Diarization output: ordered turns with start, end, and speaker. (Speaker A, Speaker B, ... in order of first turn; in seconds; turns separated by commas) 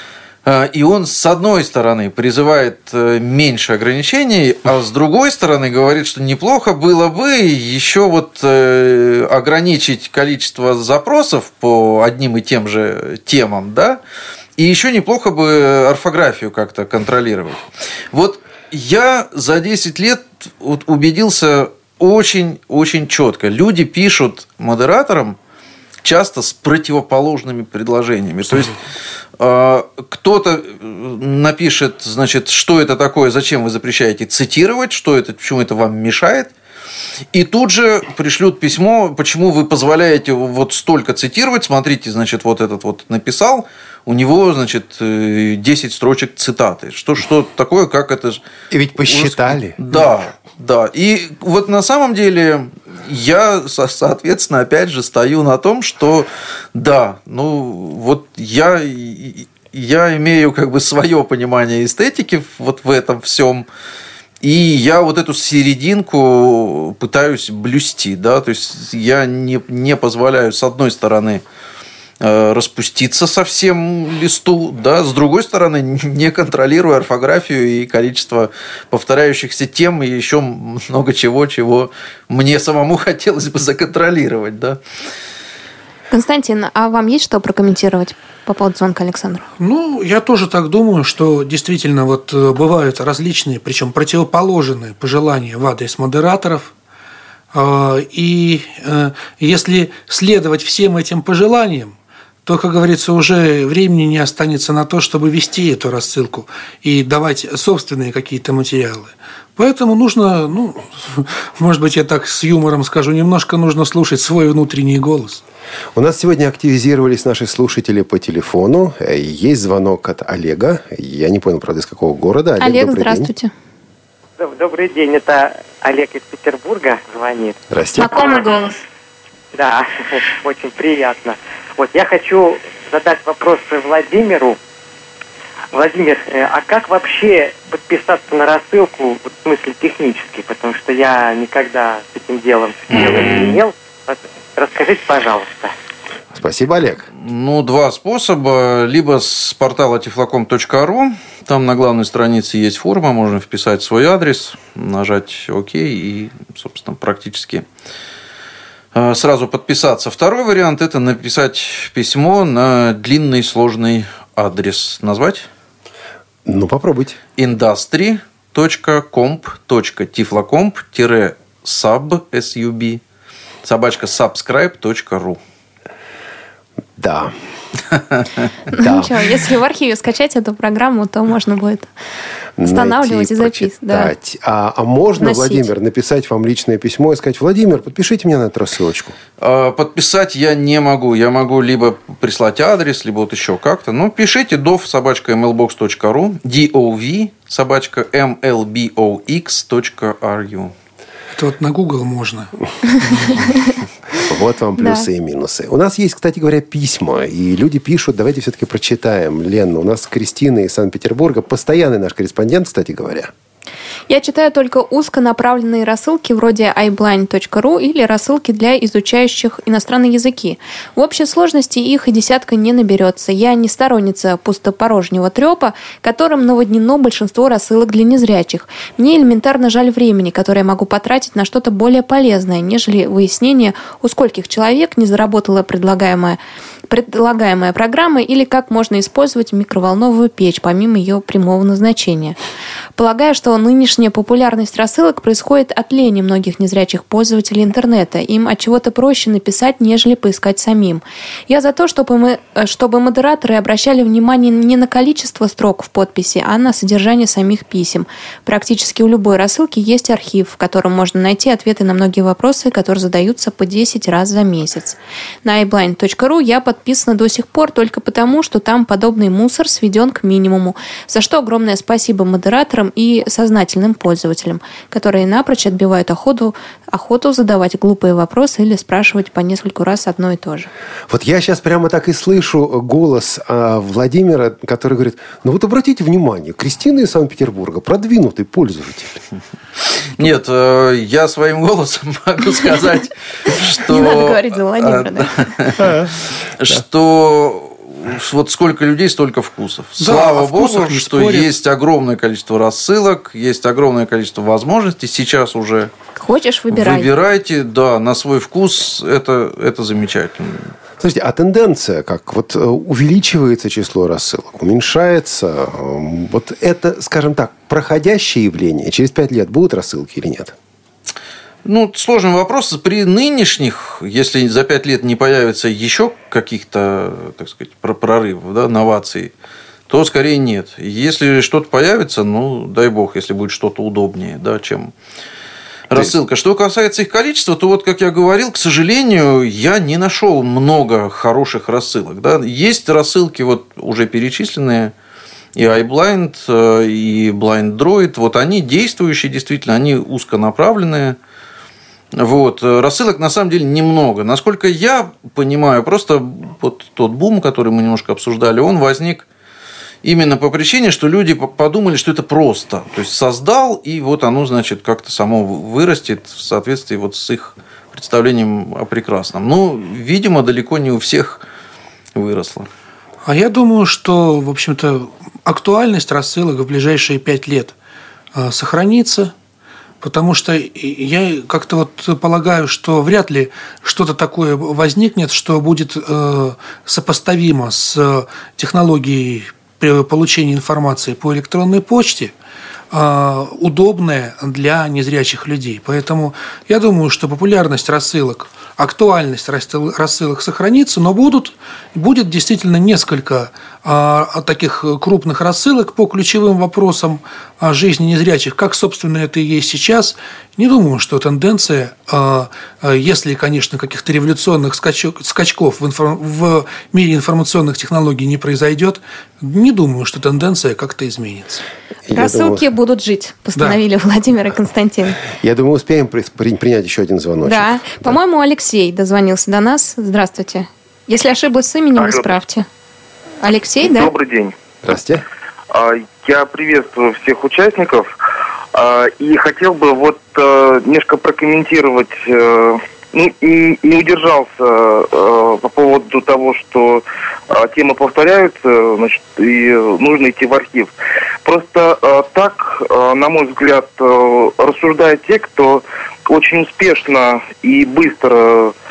Speaker A: 0.4-14.0, Speaker A: 14.6-25.4, Speaker A: 26.0-28.8, Speaker A: 29.4-36.5, Speaker A: 37.3-48.4, Speaker B: 48.7-50.0, Speaker A: 49.0-63.6, Speaker A: 64.4-71.4, Speaker A: 72.2-84.8, Speaker C: 86.1-89.5, Speaker D: 89.6-96.7, Speaker D: 97.5-101.9, Speaker D: 102.5-115.4, Speaker B: 116.0-123.3, Speaker C: 122.6-123.5, Speaker E: 124.4-127.6, Speaker B: 127.7-128.2, Speaker C: 128.0-128.8, Speaker E: 129.5-134.6, Speaker E: 135.7-145.7, Speaker B: 146.3-147.1, Speaker A: 147.2-157.6, Speaker A: 158.9-165.5, Speaker B: 166.4-167.2, Speaker A: 167.4-173.0, Speaker A: 173.6-175.4, Speaker B: 177.0-177.3, Speaker A: 177.9-178.2, Speaker C: 178.7-181.9, Speaker B: 178.8-179.1, Speaker B: 182.6-189.2, Speaker C: 182.6-184.1, Speaker C: 185.2-185.7, Speaker A: 189.4-200.7, Speaker D: 201.3-203.4, Speaker B: 204.2-213.3, Speaker C: 204.8-205.0, Speaker C: 214.1-242.4, Speaker C: 242.9-280.7, Speaker B: 281.1-289.2, Speaker A: 289.9-305.9, Speaker C: 293.9-295.5, Speaker B: 295.8-296.1, Speaker D: 300.0-301.5, Speaker C: 306.1-307.1, Speaker A: 306.7-310.7, Speaker B: 311.0-320.5, Speaker A: 321.6-329.3, Speaker A: 329.9-334.9, Speaker A: 335.9-344.9, Speaker A: 345.6-351.2, Speaker A: 352.1-359.2, Speaker A: 360.0-371.4, Speaker A: 372.1-372.7, Speaker D: 373.2-377.7, Speaker D: 378.3-379.3, Speaker D: 380.0-392.3, Speaker D: 392.9-421.6, Speaker B: 422.1-422.6, Speaker C: 422.1-425.2, Speaker D: 423.6-423.8, Speaker B: 425.4-428.1, Speaker C: 427.4-432.6, Speaker F: 432.0-432.3, Speaker C: 433.4-434.1, Speaker F: 433.8-434.6, Speaker B: 434.8-435.2, Speaker F: 435.7-438.1, Speaker F: 438.7-450.9, Speaker F: 451.4-458.7